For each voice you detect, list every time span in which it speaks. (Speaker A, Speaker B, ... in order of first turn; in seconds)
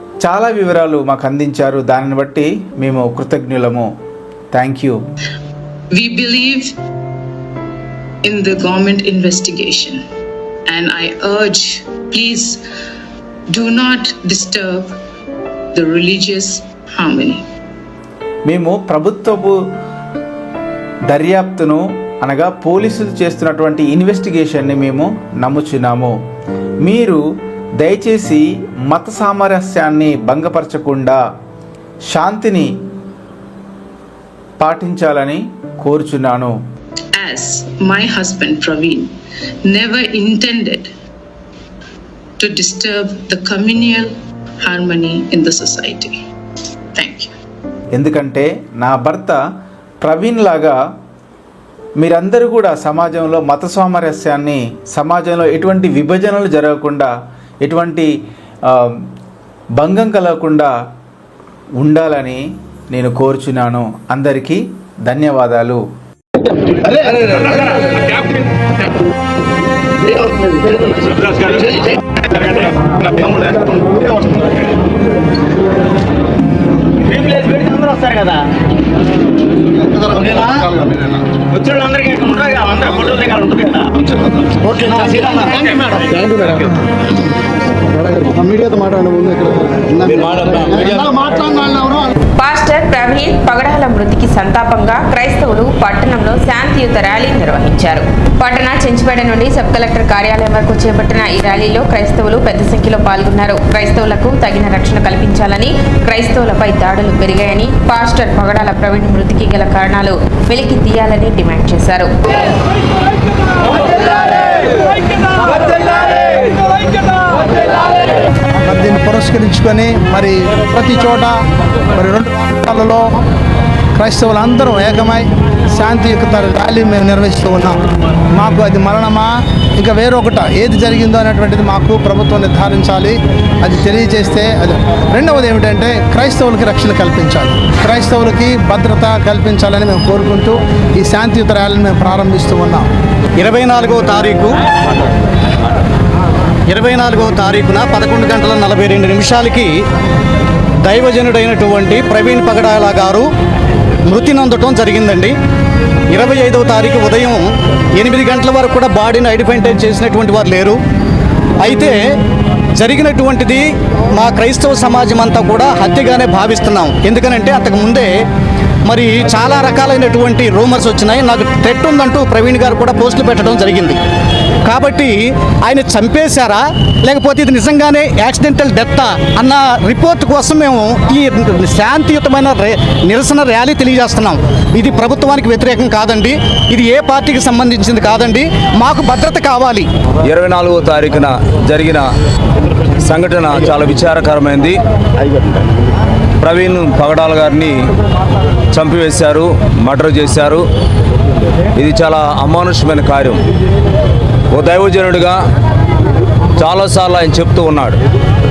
Speaker A: 0.2-3.9, 4.5-5.0, 18.5-19.6, 21.1-26.1, 26.8-27.2, 27.8-31.2, 32.1-32.7, 34.6-36.5, 47.9-49.4, 50.0-50.8, 52.0-57.1, 57.6-58.1, 58.7-59.0, 59.8-60.7, 61.8-65.8
Speaker B: 6.0-6.7, 8.2-10.0, 10.7-12.6, 13.5-14.9, 15.7-17.4, 37.2-39.1, 39.7-40.9, 42.4-44.1, 44.6-46.1, 47.0-47.3
Speaker C: 66.9-68.2, 70.1-74.6, 77.0-78.4, 80.0-80.7, 81.4-86.2
Speaker D: 88.2-92.1, 118.6-121.3, 122.0-123.1, 124.0-127.8, 128.3-142.9
Speaker E: 90.1-91.1, 190.2-192.1, 193.0-194.8, 196.4-197.9, 198.7-200.7, 201.8-203.4, 204.5-205.4, 206.6-208.0
Speaker F: 92.4-112.1
Speaker G: 143.4-144.6, 146.7-149.7, 150.8-153.3, 154.1-155.3, 156.1-160.8, 161.6-162.0, 162.8-168.1, 168.9-174.0, 174.7-189.9